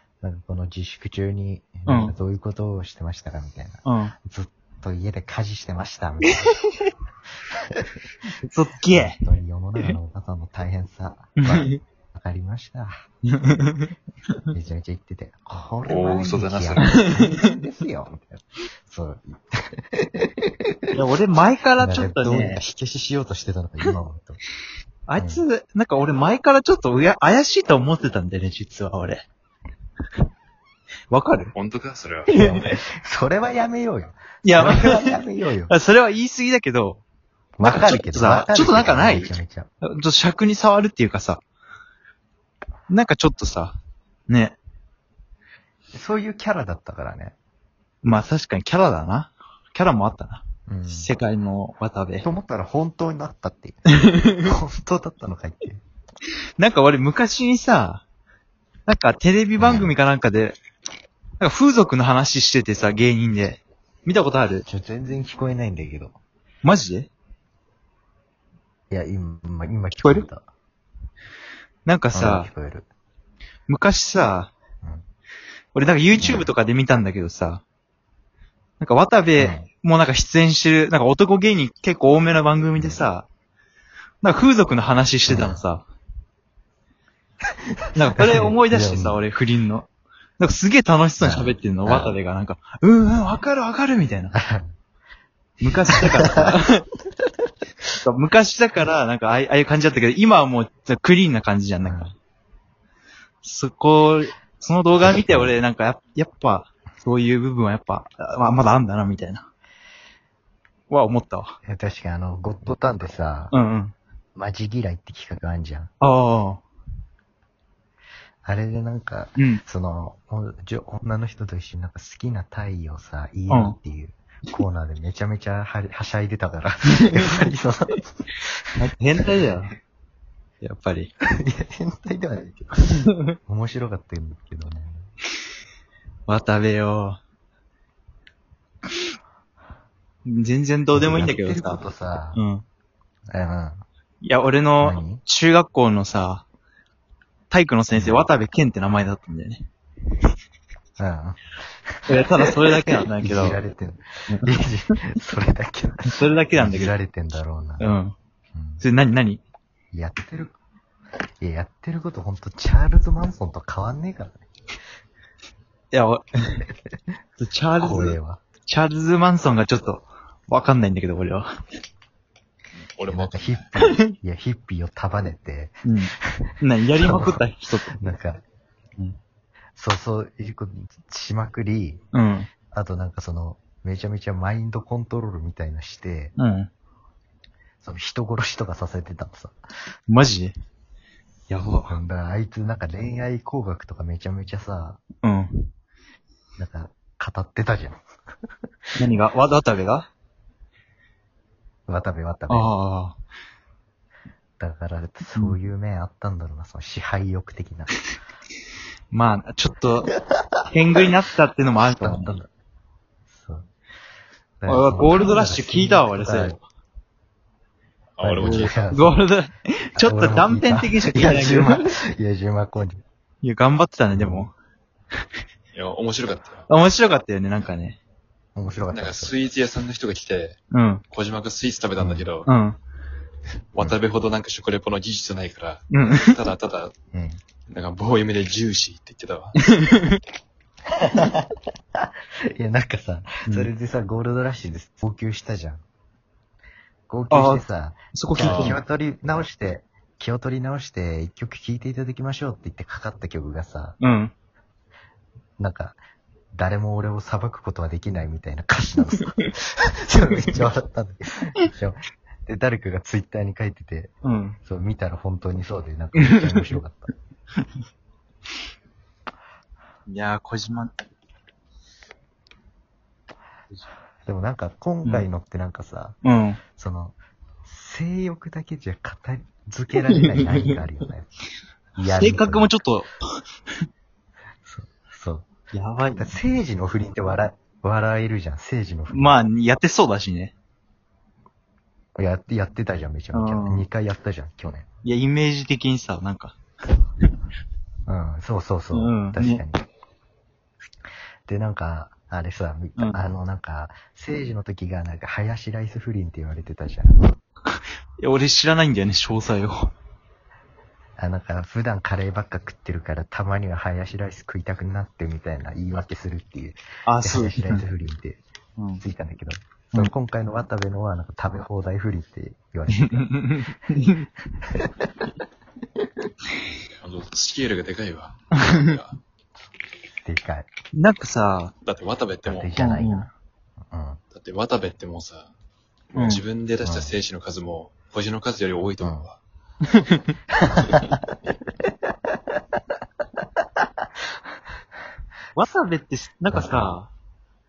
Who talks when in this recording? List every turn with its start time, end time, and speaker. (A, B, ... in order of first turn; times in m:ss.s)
0:00.2-0:06.6 A
0:01.9-0:02.1 B
0:03.8-0:04.1 B
0:06.2-0:06.8 B
0:08.4-0:09.2 B
0:08.9-0:12.9 A
0:11.4-0:11.8 B
0:13.3-0:13.9 B
0:14.5-0:20.9 A
0:15.8-0:17.0 C
0:16.8-0:17.4 B
0:20.9-0:22.6 B
0:21.8-0:24.4 A
0:25.1-0:29.2 B
0:25.1-0:25.4 A
0:31.1-0:31.5 B
0:31.5-0:32.3 C
0:32.3-0:32.7 B
0:32.3-0:35.7 A
0:34.4-0:35.1 B
0:35.7-0:37.0 B
0:37.6-0:39.7 A
0:37.6-0:41.4 B
0:42.9-0:43.8 B
0:44.3-0:44.6 B
0:45.9-0:47.3 A
0:48.0-0:52.3 B
0:50.7-0:51.1 A
0:52.2-0:53.8 A
0:54.0-0:54.5 B
0:54.4-0:55.8 A
0:56.6-0:58.0 B
0:58.9-1:00.6 B
0:59.6-0:59.9 A
1:01.4-1:04.6 B
1:04.7-1:06.2 A
1:06.6-1:07.1 B
1:08.9-1:10.4 A
1:10.0-1:10.3 B
1:11.8-1:12.5 B
1:12.1-1:12.9 A
1:13.7-1:14.5 B
1:15.8-1:17.6 B
1:16.2-1:16.5 A
1:18.8-1:23.2 B
1:19.4-1:19.7 A
1:22.8-1:23.0 A
1:24.2-1:25.8 B
1:25.3-1:25.6 A
1:27.9-1:29.2 A
1:27.9-1:29.9 B
1:30.4-1:34.3 B
1:31.2-1:32.2 A
1:34.3-1:34.7 A
1:35.6-1:36.9 B
1:35.9-1:36.6 A
1:38.0-1:42.1 B
1:41.8-1:42.1 A
1:43.4-1:49.5 B
1:45.0-1:45.6 A
1:50.9-1:51.6 B
1:51.6-1:53.5 A
1:53.5-1:53.9 B
1:54.4-1:55.9 A
1:56.0-1:56.6 B
1:58.4-2:08.6 A
1:59.4-1:59.6 B
2:03.5-2:03.8 B
2:06.9-2:07.5 B
2:08.8-2:09.8 B
2:10.6-2:11.1 B
2:11.4-2:14.9 A
2:16.3-2:17.2 B
2:20.2-2:21.8 B
2:20.9-2:22.4 A
2:22.4-2:22.6 B
2:23.3-2:23.8 A
2:24.2-2:26.4 B
2:24.8-2:25.2 A
2:27.5-2:29.6 B
2:27.9-2:28.3 A
2:31.0-2:37.8 A
2:32.1-2:33.6 B
2:36.1-2:36.9 B
2:37.8-2:38.1 B
2:38.5-2:38.8 A
2:38.8-2:39.4 B
2:39.9-2:40.6 A
2:41.4-2:44.4 A
2:45.9-2:46.6 B
2:47.4-2:51.5 B
2:47.8-2:48.4 A
2:53.0-2:53.7 C
2:53.1-2:56.5 A
2:53.8-2:54.1 B
2:55.8-2:58.0 B
2:57.0-2:58.4 A
2:59.8-3:02.0 A
3:02.1-3:02.5 B
3:02.7-3:06.3 A
3:06.4-3:06.7 B
3:07.8-3:09.5 A
3:10.1-3:10.6 B
3:11.5-3:12.0 B
3:11.7-3:15.0 A
3:15.2-3:15.7 B
3:16.6-3:18.0 A
3:19.0-3:20.1 B
3:21.9-3:22.7 A
3:22.5-3:23.2 B
3:24.6-3:27.9 A
3:29.1-3:30.1 B
3:30.2-3:30.7 A
3:30.7-3:32.3 B
3:32.0-3:32.5 A
3:33.3-3:33.7 A
3:34.6-3:36.6 A
3:34.6-3:36.6 B
3:38.2-3:38.8 C
3:38.2-3:39.2 A
3:38.4-3:41.9 B
3:40.0-3:43.0 A
3:43.4-3:44.5 B
3:44.1-3:44.5 A
3:45.7-3:46.7 C
3:46.7-3:48.0 B
3:48.6-3:49.3 A
3:48.9-3:50.6 C
3:50.7-3:51.0 B
3:51.1-3:52.5 C
3:52.0-3:52.3 A
3:52.4-3:52.8 B
3:53.7-3:56.9 C
3:55.9-3:56.3 B
3:57.1-3:57.4 A
3:57.7-3:59.6 C
3:59.6-4:00.2 B
4:01.0-4:05.8 A
4:07.1-4:14.0 A
4:07.3-4:08.8 B
4:08.4-4:08.8 C
4:14.0-4:14.3 B
4:15.6-4:16.0 A
4:16.5-4:24.1 A
4:24.2-4:24.6 B
4:24.6-4:27.1 A
4:26.2-4:26.7 B
4:30.1-4:30.9 B
4:34.2-4:36.2 A
4:36.2-4:36.6 B
4:36.8-4:41.3 A
4:40.2-4:40.8 B
4:42.0-4:42.7 A
4:42.1-4:43.4 B
4:44.6-4:45.5 A
4:45.7-4:46.4 B
4:46.2-4:49.3 A
4:49.1-4:50.5 B
4:52.2-4:54.9 A
4:53.3-4:53.9 B
4:55.0-4:56.6 B
4:58.1-4:59.8 A
4:58.9-4:59.6 B
5:01.4-5:07.3 A
5:08.2-5:09.9 B
5:11.2-5:18.4 A
5:17.0-5:17.8 B
5:18.8-5:19.0 B
5:19.0-5:23.4 A
5:22.9-5:24.3 B
5:24.7-5:25.3 A
5:27.0-5:29.2 C
5:30.2-5:30.7 A
5:30.9-5:31.7 B
5:31.8-5:32.7 C
5:32.4-5:33.3 A
5:32.8-5:33.3 B
5:33.9-5:34.2 A
5:34.3-5:35.5 C
5:36.1-5:39.4 C
5:36.2-5:36.4 B
5:36.8-5:37.1 A
5:39.0-5:39.3 A
5:39.9-5:40.3 B
5:40.6-5:41.2 A
5:45.6-5:47.1 B
5:46.5-5:46.9 A